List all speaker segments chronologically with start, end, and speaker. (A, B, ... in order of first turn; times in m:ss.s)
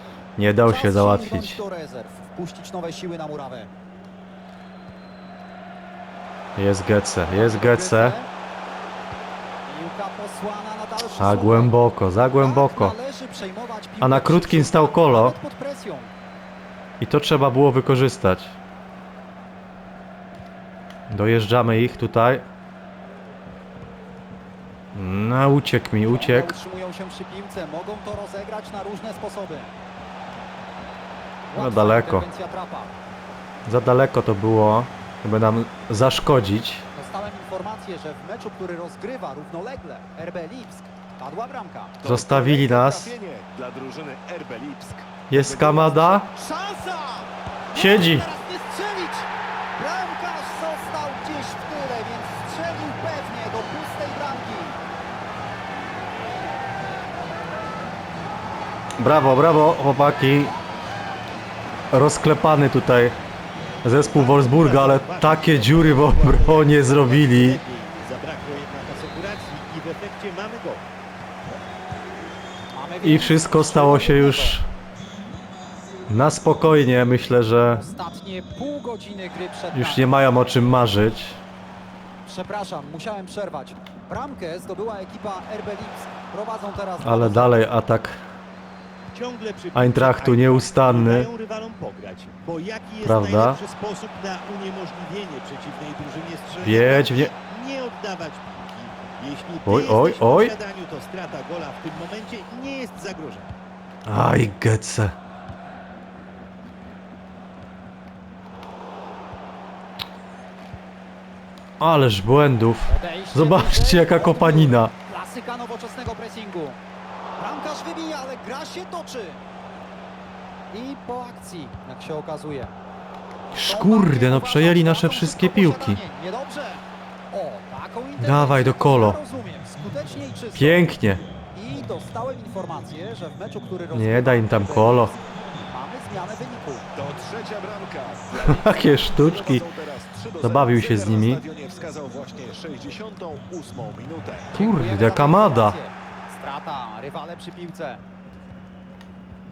0:00.4-0:01.6 A
0:00.6-0:03.7 B
0:06.6-0:08.2 A
0:07.2-0:08.3 B
0:09.6-0:11.8 B
0:11.2-0:13.0 A
0:12.4-0:16.1 B
0:14.0-0:15.4 A
0:17.0-0:18.6 A
0:21.1-0:22.4 A
0:24.9-0:26.6 A
0:26.1-0:29.7 B
0:31.5-0:32.9 B
0:31.6-0:32.2 A
0:33.6-0:36.8 A
0:36.9-0:42.0 B
0:42.0-0:46.3 C
0:42.0-0:43.1 A
0:45.3-0:46.3 A
0:46.3-0:54.8 B
0:47.7-0:48.3 A
0:59.0-1:00.5 A
1:01.9-1:03.2 A
1:03.8-1:07.6 A
1:04.0-1:10.9 D
1:12.7-1:14.6 B
1:13.0-1:14.7 A
1:16.1-1:17.8 A
1:17.7-1:20.1 B
1:19.7-1:21.4 A
1:22.2-1:27.6 B
1:27.0-1:28.2 A
1:29.1-1:43.5 D
1:29.7-1:31.3 A
1:33.0-1:33.6 A
1:36.6-1:37.3 A
1:39.6-1:40.5 A
1:44.0-1:45.1 A
1:51.8-1:54.9 A
1:52.9-1:56.8 B
1:57.4-1:59.4 B
2:00.7-2:02.7 B
2:03.5-2:06.0 A
2:03.6-2:10.9 B
2:08.2-2:09.2 A
2:10.5-2:11.2 A
2:11.5-2:15.1 B
2:13.9-2:15.1 A
2:15.6-2:16.9 B
2:16.9-2:24.5 C
2:18.4-2:19.6 A
2:20.4-2:21.4 A
2:24.5-2:25.8 A
2:24.6-2:28.0 B